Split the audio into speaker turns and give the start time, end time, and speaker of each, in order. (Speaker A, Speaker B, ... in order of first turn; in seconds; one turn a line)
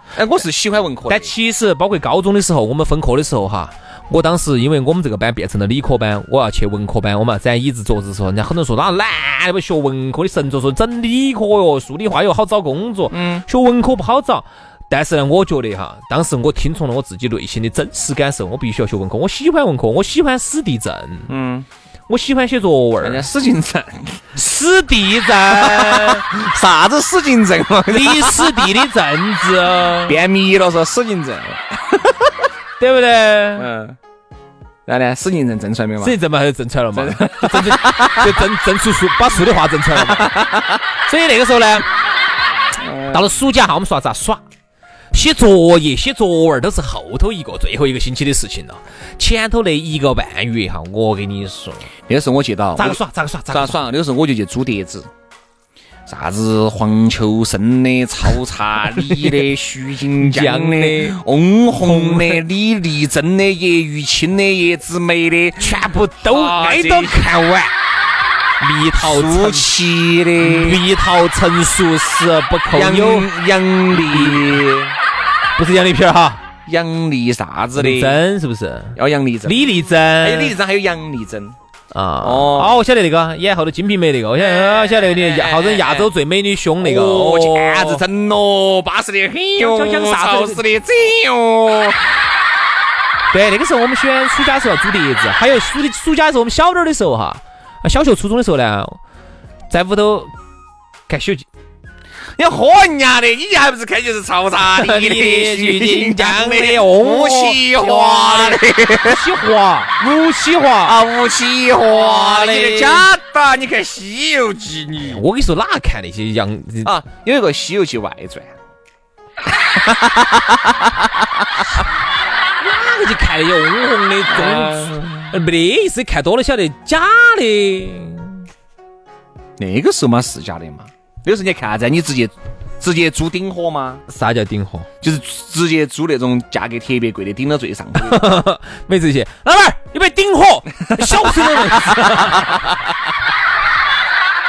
Speaker A: 0.1-1.3
Speaker B: 1.1-21.3
Speaker A: 13.1-13.4
Speaker A: 21.3-21.7
Speaker B: 22.1-23.3
Speaker A: 23.0-24.2
Speaker B: 24.4-26.2
Speaker A: 25.5-28.8
Speaker B: 27.9-30.2
Speaker A: 30.1-32.5
Speaker B: 32.8-33.7
Speaker A: 33.6-34.0
Speaker A: 34.9-36.2
Speaker B: 36.0-40.4
Speaker A: 36.9-38.4
Speaker A: 40.0-40.8
Speaker B: 41.1-41.9
Speaker A: 42.8-43.3
Speaker B: 43.1-44.4
Speaker B: 45.1-51.9
Speaker A: 52.1-55.1
Speaker B: 52.8-53.8
Speaker A: 56.1-67.2
Speaker B: 59.0-59.4
Speaker B: 60.2-61.2
Speaker B: 61.8-62.4
Speaker B: 65.6-67.7
Speaker B: 68.6-69.7
Speaker A: 69.0-70.8
Speaker B: 70.4-73.3
Speaker A: 72.7-75.0
Speaker B: 73.9-74.6
Speaker B: 75.6-76.4
Speaker A: 76.7-78.2
Speaker B: 77.8-80.5
Speaker A: 79.0-79.7
Speaker A: 80.2-81.6
Speaker B: 81.9-88.0
Speaker A: 82.2-82.8
Speaker A: 84.4-86.1
Speaker A: 86.8-92.1
Speaker B: 89.6-90.6
Speaker B: 93.3-99.0
Speaker B: 99.7-100.3
Speaker B: 101.1-101.5
Speaker A: 102.4-109.2
Speaker B: 104.6-111.0
Speaker A: 110.8-115.2
Speaker B: 111.9-113.1
Speaker B: 115.0-116.9
Speaker A: 116.8-118.6
Speaker A: 119.9-120.5
Speaker B: 122.6-128.4
Speaker A: 124.3-125.3
Speaker A: 129.6-134.0
Speaker B: 134.1-134.9
Speaker A: 135.0-138.4
Speaker B: 138.0-142.7
Speaker A: 140.9-142.7